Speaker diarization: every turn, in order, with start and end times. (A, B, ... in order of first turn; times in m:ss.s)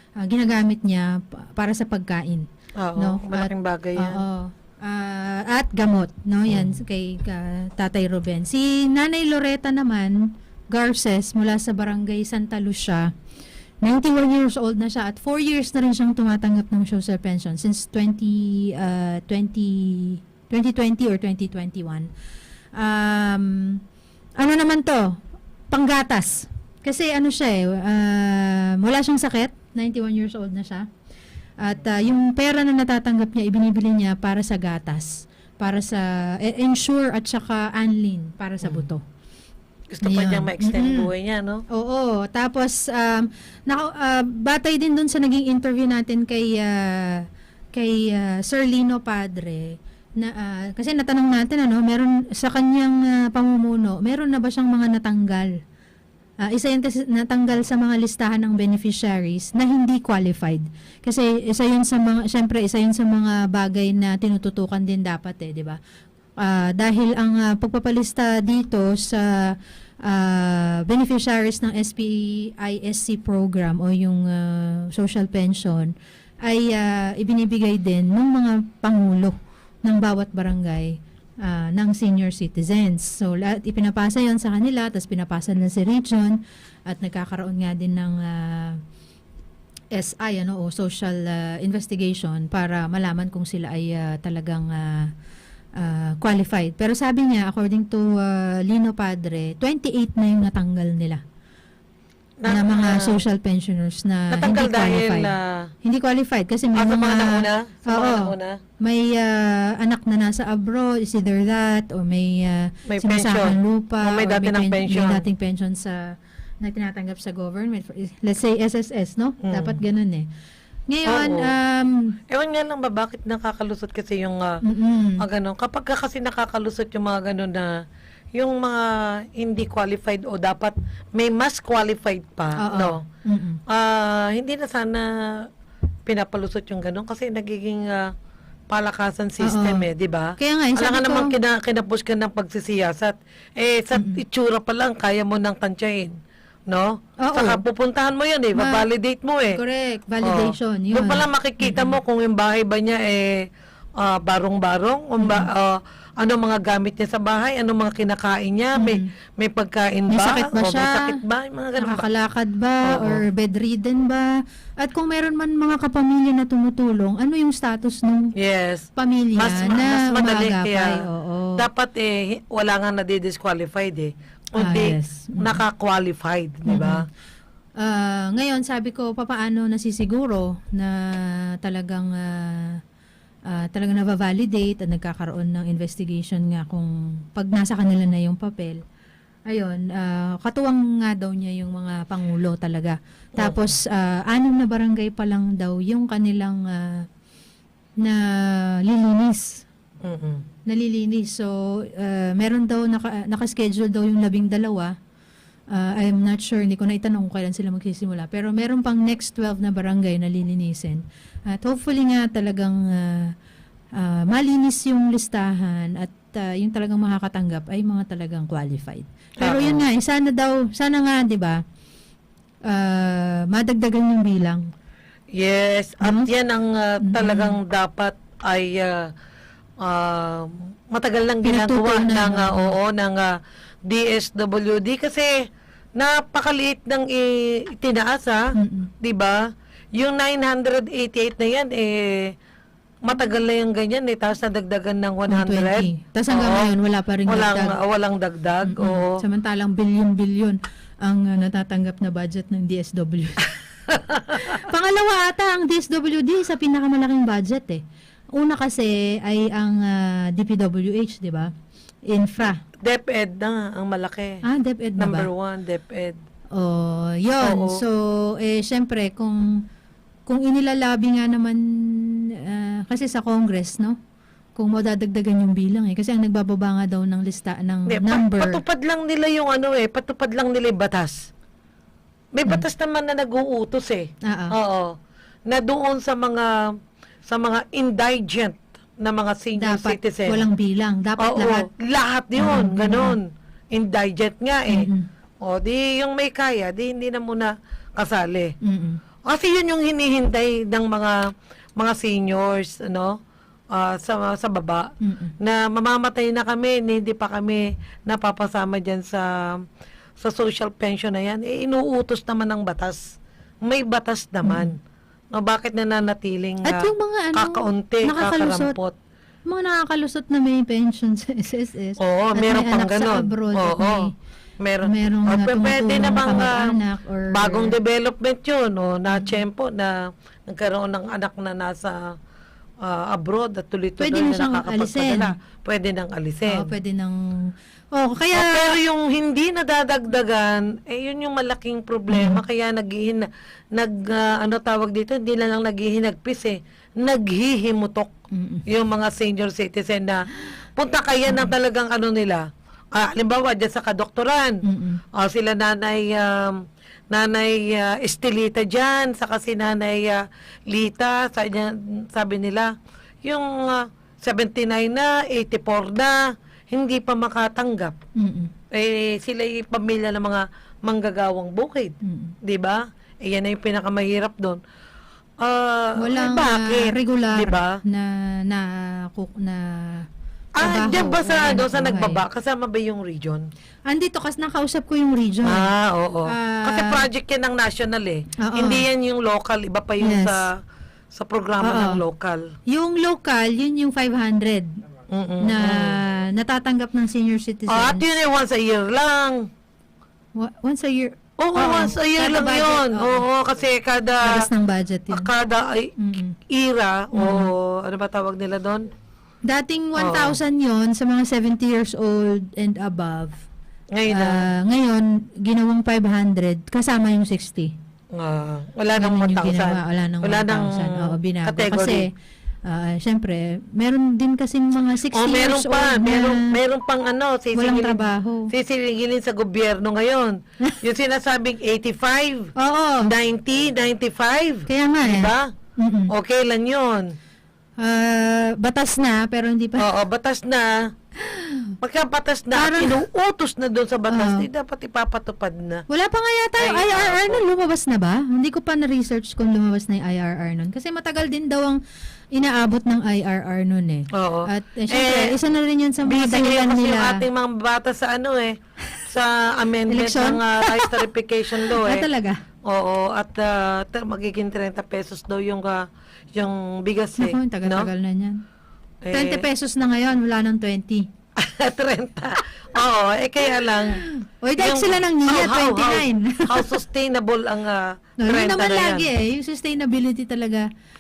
0:00.2-0:13.1 A
0:02.8-0:04.2 B
0:06.5-0:06.8 B
0:13.8-0:22.1 A
0:22.8-0:23.8 A
0:24.4-0:25.2 A
0:25.7-0:30.9 A
0:31.6-0:39.0 A
0:38.6-0:38.9 B
0:39.9-0:41.6 B
0:40.0-0:41.1 A
0:41.7-0:47.2 A
0:47.8-0:55.5 A
0:56.4-1:05.8 A
1:06.4-1:15.9 A
1:16.5-1:26.4 A
1:26.9-1:28.8 A
1:30.0-1:35.1 A
1:35.8-1:41.2 A
1:42.4-1:43.2 B
1:42.5-1:45.3 A
1:44.3-1:45.7 B
1:45.8-2:00.3 A
1:46.8-1:48.6 B
1:52.9-1:55.2 B
1:59.4-1:59.8 B
2:00.9-2:02.1 A
2:01.1-2:01.5 B
2:02.3-2:04.6 B
2:04.6-2:05.2 A
2:05.2-2:07.7 B
2:08.4-2:13.0 B
2:12.6-2:13.6 A
2:13.7-2:15.5 B
2:16.1-2:18.1 B
2:18.7-2:26.2 B
2:19.4-2:19.8 A
2:20.4-2:21.3 A
2:24.0-2:24.2 A
2:26.7-2:29.6 B
2:27.2-2:27.6 A
2:28.6-2:28.9 A
2:29.5-2:32.0 A
2:30.2-2:33.5 B
2:34.0-2:42.0 B
2:35.2-2:35.5 A
2:40.1-2:41.0 A
2:41.8-2:48.3 A
2:42.9-2:43.2 B
2:48.4-2:51.0 B
2:49.0-2:51.6 A
2:51.6-2:57.0 B
2:54.6-2:55.6 A
2:56.7-2:57.0 A
2:57.8-3:02.8 A
3:03.5-3:08.8 A
3:09.5-3:17.1 A
3:18.0-3:19.6 A
3:20.0-3:20.4 B
3:20.7-3:24.9 A
3:25.7-3:33.3 A
3:34.0-3:41.6 A
3:39.4-3:39.8 B
3:42.7-3:44.7 A
3:45.3-3:49.1 B
3:46.0-3:46.3 A
3:47.0-3:47.6 A
3:49.8-3:53.3 B
3:51.4-3:52.7 A
3:53.9-3:55.4 B
3:56.0-3:58.4 B
3:58.6-3:58.9 A
3:59.0-3:59.4 B
4:00.0-4:02.3 B
4:03.0-4:06.7 B
4:05.3-4:07.8 A
4:07.3-4:09.1 B
4:08.7-4:13.4 A
4:14.1-4:14.6 B
4:14.5-4:17.8 A
4:18.4-4:21.5 A
4:22.1-4:22.6 A
4:22.8-4:24.4 B
4:24.4-4:25.3 A
4:25.0-4:26.2 B
4:26.5-4:29.6 A
4:27.4-4:27.8 B
4:30.3-4:34.0 A
4:34.6-4:38.6 A
4:37.9-4:41.3 B
4:42.4-4:44.9 B
4:44.3-4:44.5 A
4:45.5-4:46.7 B
4:47.3-4:50.4 B
4:49.6-4:51.7 A
4:51.2-4:54.9 B
4:52.4-4:53.2 A
4:54.7-4:55.1 A
4:55.4-4:58.5 B
4:58.6-4:59.0 A
4:59.3-5:01.2 B
5:01.8-5:03.2 B
5:03.7-5:09.6 B
5:05.0-5:05.3 A
5:10.2-5:13.1 B
5:13.6-5:14.8 B
5:14.4-5:14.7 A
5:15.3-5:19.0 B
5:16.6-5:18.8 A
5:19.5-5:24.1 A
5:22.0-5:24.1 B
5:24.6-5:26.8 B
5:24.9-5:27.7 A
5:27.3-5:30.0 B
5:29.1-5:29.4 A
5:30.5-5:32.0 B
5:32.8-5:36.7 B
5:34.0-5:35.3 A
5:36.5-5:37.2 A
5:38.0-5:38.8 A
5:38.3-5:48.1 B
5:42.1-5:42.4 A
5:48.3-5:48.6 A
5:48.7-5:54.6 B
5:54.6-5:55.0 A
5:55.2-6:02.7 B
6:03.2-6:08.0 B
6:08.2-6:08.5 A
6:08.7-6:14.6 B
6:12.0-6:12.4 A
6:15.4-6:17.8 B
6:16.0-6:20.1 A
6:20.6-6:23.5 B
6:20.6-6:22.2 A
6:23.9-6:25.7 A
6:25.5-6:30.6 B
6:26.3-6:27.0 A
6:28.4-6:28.8 A
6:30.0-6:30.4 A
6:31.1-6:32.4 B
6:31.6-6:32.0 A
6:32.7-6:34.8 A
6:35.1-6:36.0 B
6:35.4-6:38.0 A
6:37.7-6:39.4 B
6:40.4-6:43.2 A
6:41.4-6:44.5 B
6:44.2-6:45.3 A
6:45.1-6:46.0 B
6:46.0-6:46.4 A
6:46.5-6:48.9 B
6:47.1-6:47.5 A
6:49.5-6:53.4 A
6:50.0-6:50.4 B
6:53.9-6:54.4 B
6:54.1-6:57.7 A
6:58.1-7:02.0 B
6:59.0-7:02.1 A
7:02.7-7:06.5 A
7:05.1-7:12.5 B
7:07.6-7:08.5 A
7:12.6-7:13.1 A
7:13.0-7:15.5 B
7:14.7-7:16.1 A
7:16.1-7:17.1 B
7:17.8-7:19.9 A
7:19.8-7:20.9 B
7:21.2-7:21.8 A
7:21.8-7:25.9 B
7:22.5-7:23.0 A
7:24.1-7:24.5 A
7:25.9-7:31.8 A
7:26.6-7:27.4 B
7:32.3-7:37.2 A
7:34.1-7:35.4 B
7:36.0-7:42.1 B
7:39.9-7:41.0 A
7:41.6-7:42.4 A
7:42.7-7:47.9 B
7:47.2-7:48.4 A
7:49.0-7:49.5 B
7:49.1-7:51.1 A
7:51.4-7:54.0 B
7:53.9-7:56.8 A
7:54.6-7:59.1 B
7:58.2-8:00.7 A